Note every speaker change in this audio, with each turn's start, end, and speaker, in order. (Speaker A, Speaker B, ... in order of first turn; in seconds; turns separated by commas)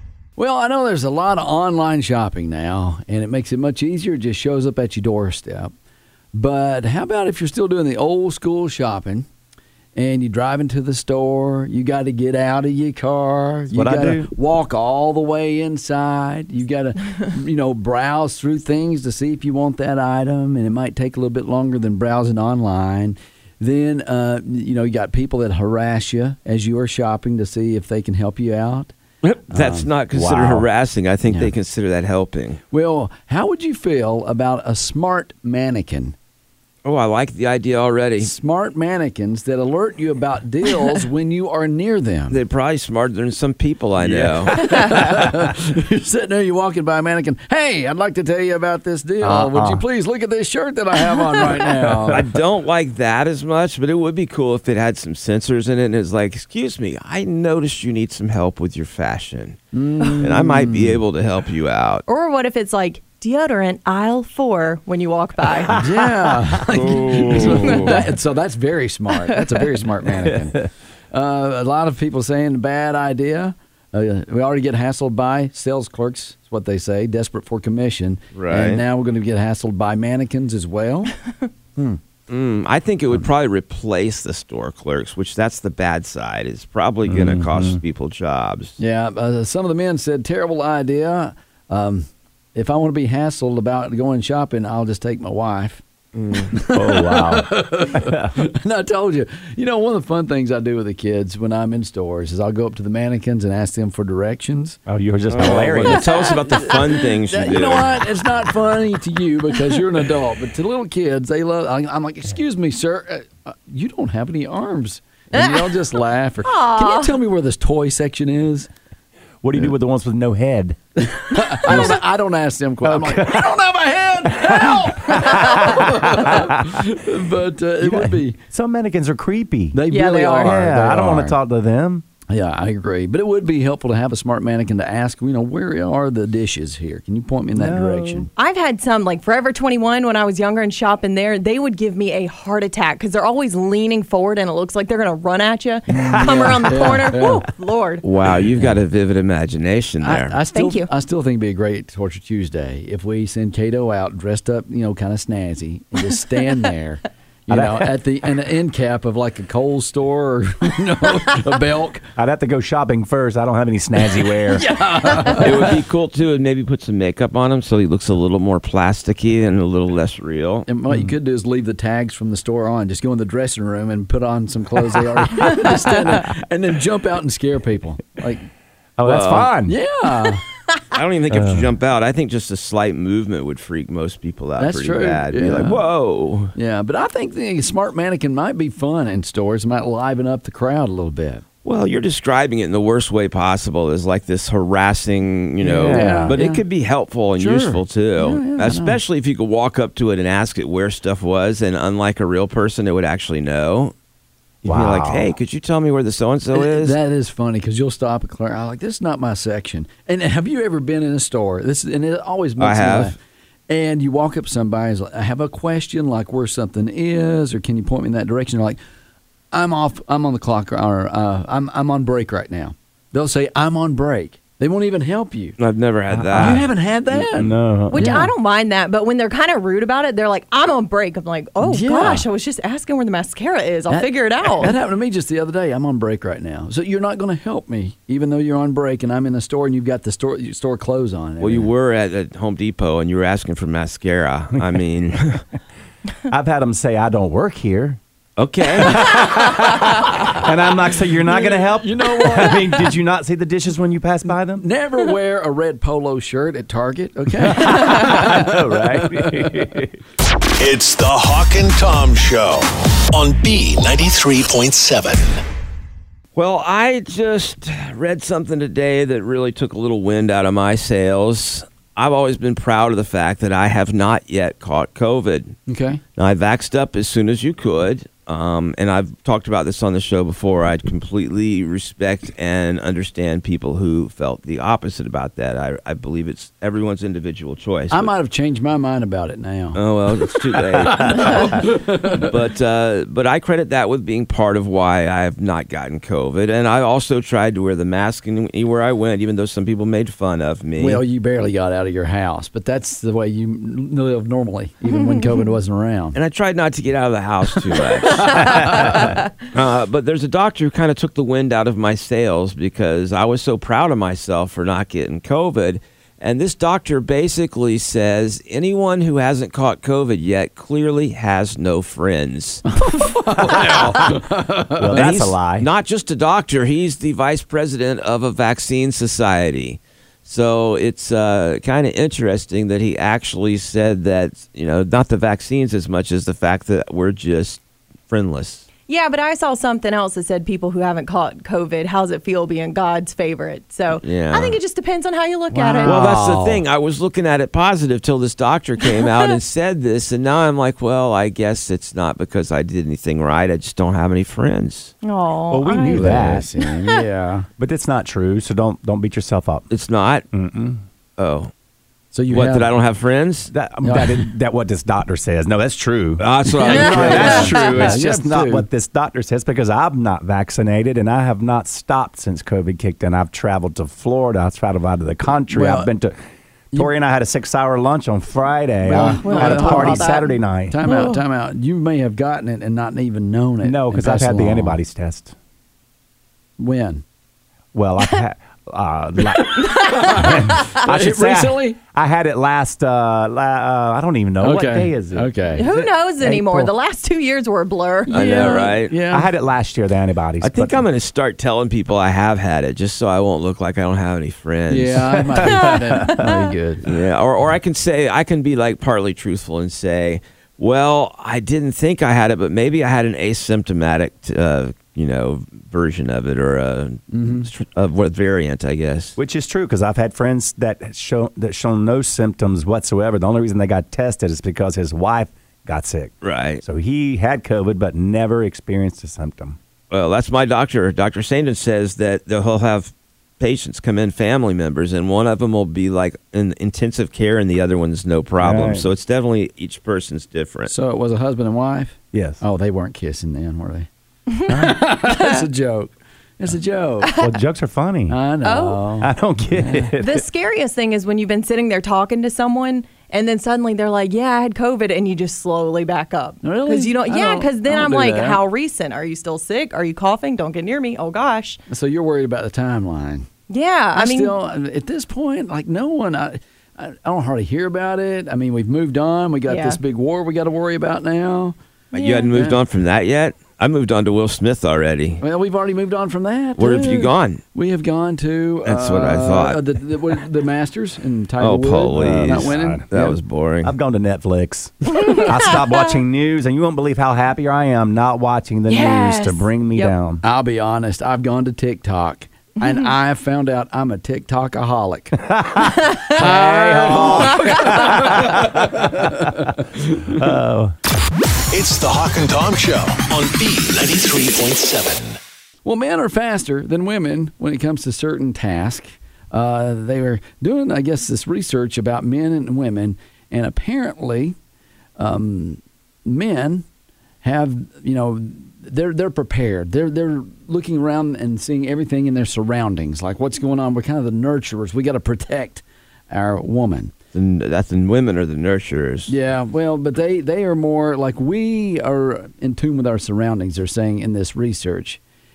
Speaker A: 0.4-5.7, Speaker A: 6.3-9.3, Speaker A: 9.9-28.9, Speaker B: 13.7-14.3, Speaker C: 29.2-32.6, Speaker A: 29.5-29.9, Speaker B: 30.1-30.6, Speaker A: 31.3-31.5, Speaker A: 32.7-36.1, Speaker C: 36.8-38.3, Speaker A: 38.2-42.4, Speaker C: 42.3-44.6, Speaker A: 44.0-52.2, Speaker B: 49.2-49.8, Speaker D: 51.0-51.3, Speaker B: 51.6-52.4, Speaker C: 52.1-59.6, Speaker A: 59.7-61.0, Speaker D: 60.0-60.2, Speaker C: 60.2-62.0, Speaker D: 62.1-65.7, Speaker B: 65.6-66.0, Speaker A: 65.8-81.1, Speaker C: 66.7-67.9, Speaker D: 67.3-68.1, Speaker D: 69.2-69.6, Speaker C: 78.3-78.8, Speaker C: 82.3-88.8, Speaker B: 87.0-87.8, Speaker A: 88.8-95.8, Speaker C: 96.1-96.5, Speaker A: 96.5-104.8, Speaker B: 96.7-98.4, Speaker B: 104.9-106.1, Speaker C: 105.3-108.1, Speaker A: 105.4-118.7, Speaker D: 105.9-107.1, Speaker D: 115.3-115.7, Speaker D: 116.4-117.1, Speaker B: 119.4-120.8, Speaker A: 121.0-128.4, Speaker B: 121.6-122.0, Speaker B: 122.8-123.5, Speaker B: 124.2-126.9, Speaker B: 127.8-129.8, Speaker A: 129.7-131.3, Speaker D: 129.9-130.5, Speaker B: 130.3-132.0, Speaker A: 132.3-138.3, Speaker B: 137.5-138.3, Speaker D: 138.3-148.0, Speaker B: 145.9-147.2, Speaker A: 146.0-147.4, Speaker C: 148.0-150.4, Speaker A: 150.0-162.1, Speaker D: 150.5-150.9, Speaker B: 157.5-158.0, Speaker B: 162.2-164.7, Speaker A: 164.4-165.7, Speaker C: 165.3-170.7, Speaker A: 170.7-178.5, Speaker B: 170.9-171.2, Speaker B: 179.0-179.8, Speaker C: 179.1-179.5, Speaker A: 179.7-180.4, Speaker C: 180.9-186.5, Speaker B: 181.3-181.7, Speaker A: 184.6-185.8, Speaker A: 186.5-191.4, Speaker C: 191.6-203.9, Speaker A: 195.6-196.6, Speaker B: 195.8-196.4, Speaker A: 197.4-199.0, Speaker C: 204.6-207.0, Speaker B: 204.6-205.3, Speaker A: 206.5-213.2, Speaker C: 212.6-213.1, Speaker A: 213.7-218.8, Speaker A: 219.5-225.6, Speaker C: 225.6-227.3, Speaker B: 226.1-226.7, Speaker A: 226.3-228.3, Speaker B: 227.3-228.2, Speaker D: 227.9-234.7, Speaker A: 231.6-232.2, Speaker A: 233.9-241.7, Speaker C: 241.4-245.4, Speaker B: 246.3-248.0, Speaker C: 248.4-249.2, Speaker B: 248.8-254.7, Speaker A: 251.2-252.9, Speaker A: 254.6-259.7, Speaker B: 257.4-259.9, Speaker E: 260.6-265.4, Speaker C: 266.4-275.6, Speaker A: 275.7-276.0, Speaker C: 276.2-288.1, Speaker A: 287.9-292.3, Speaker C: 289.7-301.0, Speaker A: 300.8-306.2, Speaker C: 306.1-308.9, Speaker A: 307.8-309.1, Speaker B: 308.4-309.1, Speaker C: 309.5-322.6, Speaker A: 322.7-325.1, Speaker C: 323.4-324.1, Speaker B: 324.8-325.7, Speaker C: 324.9-338.6, Speaker D: 338.9-346.1, Speaker C: 344.0-344.6, Speaker A: 345.5-346.6, Speaker C: 345.8-354.9, Speaker D: 355.0-356.1, Speaker B: 355.5-356.5, Speaker A: 355.9-357.5, Speaker D: 356.6-357.0, Speaker B: 357.6-359.6, Speaker C: 359.7-360.2, Speaker B: 360.3-360.8, Speaker C: 361.2-361.5, Speaker A: 362.1-362.7, Speaker C: 362.3-363.5, Speaker B: 363.5-376.1, Speaker A: 363.8-364.3, Speaker C: 366.2-367.7, Speaker A: 366.5-368.7, Speaker D: 366.7-367.7, Speaker A: 375.5-375.9, Speaker B: 376.7-380.8, Speaker A: 378.8-384.8, Speaker D: 379.2-381.2, Speaker B: 383.6-385.3, Speaker A: 386.6-387.0, Speaker B: 387.7-396.7, Speaker D: 389.6-390.3, Speaker A: 389.7-391.8, Speaker A: 394.4-395.9, Speaker D: 395.6-398.8, Speaker C: 398.1-398.9, Speaker A: 398.9-399.3, Speaker B: 399.1-400.8, Speaker C: 400.4-405.2, Speaker A: 404.7-406.9, Speaker B: 405.3-406.3, Speaker D: 405.6-406.4, Speaker C: 406.8-419.2, Speaker A: 417.1-417.5, Speaker B: 419.2-429.6, Speaker C: 426.2-426.6, Speaker C: 429.9-440.7, Speaker B: 438.4-438.9, Speaker A: 440.7-443.9, Speaker B: 442.1-442.4, Speaker A: 444.5-447.1, Speaker B: 444.5-444.9, Speaker B: 447.2-448.2, Speaker A: 448.1-449.9, Speaker D: 448.4-448.8, Speaker B: 449.0-450.2, Speaker D: 450.0-461.6, Speaker A: 456.4-458.4, Speaker A: 461.7-463.3, Speaker D: 463.5-464.4, Speaker A: 463.9-471.6, Speaker D: 469.5-469.8, Speaker C: 471.9-475.2, Speaker D: 471.9-472.3, Speaker A: 472.3-472.6, Speaker A: 475.2-483.2, Speaker C: 476.6-477.4, Speaker C: 478.6-480.2, Speaker C: 481.4-483.7, Speaker B: 481.9-482.9, Speaker B: 483.6-490.2, Speaker D: 484.9-485.9, Speaker D: 488.7-489.9, Speaker A: 490.2-495.3, Speaker D: 492.6-492.9, Speaker B: 495.2-500.7, Speaker A: 496.1-500.3, Speaker D: 497.1-497.8, Speaker E: 501.5-505.2, Speaker A: 505.6-514.4, Speaker A: 515.0-516.6, Speaker A: 517.2-526.9, Speaker C: 527.1-529.1, Speaker A: 529.1-535.0